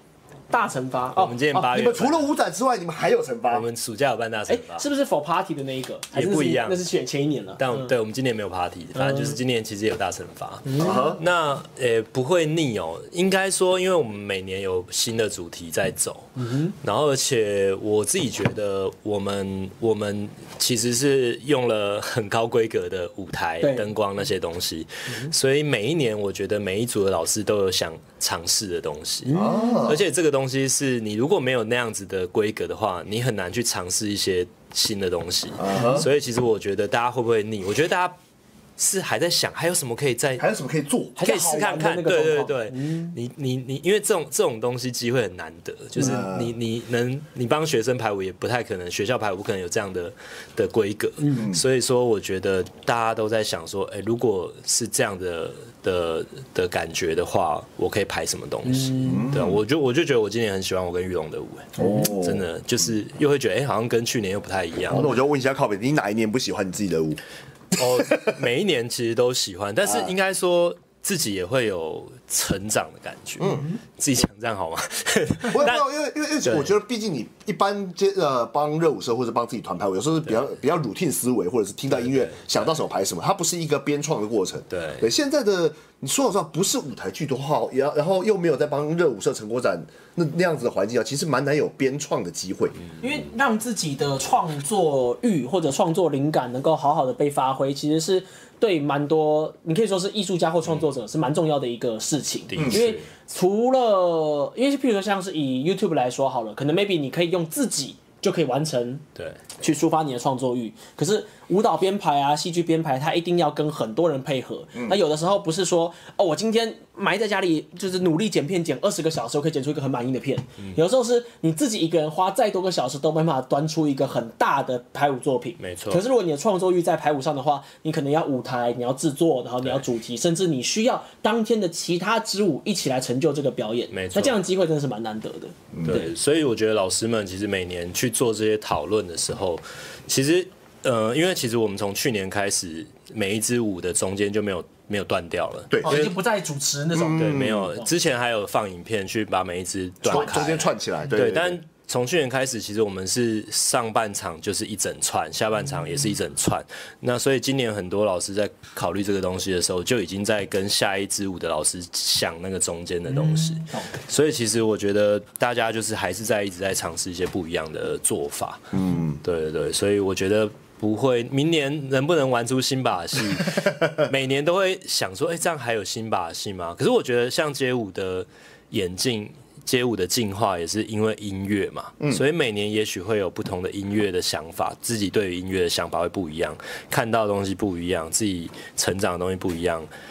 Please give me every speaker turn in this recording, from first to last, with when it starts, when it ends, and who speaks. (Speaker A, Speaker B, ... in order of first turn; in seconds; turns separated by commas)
Speaker A: 0.5-1.4, Speaker B: 1.1-2.3, Speaker C: 1.5-3.7, Speaker B: 3.5-4.9, Speaker A: 4.5-7.9, Speaker B: 6.1-6.8, Speaker B: 7.6-38.2, Speaker A: 9.0-9.4, Speaker A: 10.7-11.2, Speaker C: 10.8-11.2, Speaker A: 16.4-16.8, Speaker A: 23.6-23.9, Speaker A: 29.3-29.9, Speaker C: 29.3-30.0, Speaker C: 35.6-36.1, Speaker A: 35.7-36.0, Speaker B: 38.8-40.5, Speaker C: 40.4-41.2, Speaker A: 41.2-43.1, Speaker B: 41.2-65.1, Speaker C: 46.0-46.5, Speaker C: 51.4-51.6, Speaker A: 58.7-59.3, Speaker C: 59.0-59.6, Speaker C: 61.8-62.5, Speaker C: 64.9-67.2, Speaker B: 67.8-75.9, Speaker C: 67.8-68.4, Speaker C: 69.8-70.1, Speaker C: 73.4-73.7, Speaker C: 75.5-92.8, Speaker B: 76.4-76.8, Speaker B: 81.9-82.7, Speaker B: 84.7-85.1, Speaker B: 92.9-93.2, Speaker A: 93.0-109.0, Speaker B: 102.5-103.1, Speaker C: 102.6-102.8, Speaker B: 109.2-109.4, Speaker A: 109.6-136.1, Speaker B: 125.6-126.0, Speaker B: 133.9-134.4, Speaker C: 135.7-136.0, Speaker B: 135.9-146.2, Speaker C: 145.7-146.1, Speaker A: 145.8-147.9, Speaker C: 146.9-147.7, Speaker B: 147.1-189.9, Speaker C: 150.0-151.6, Speaker A: 163.1-163.9, Speaker C: 168.7-169.2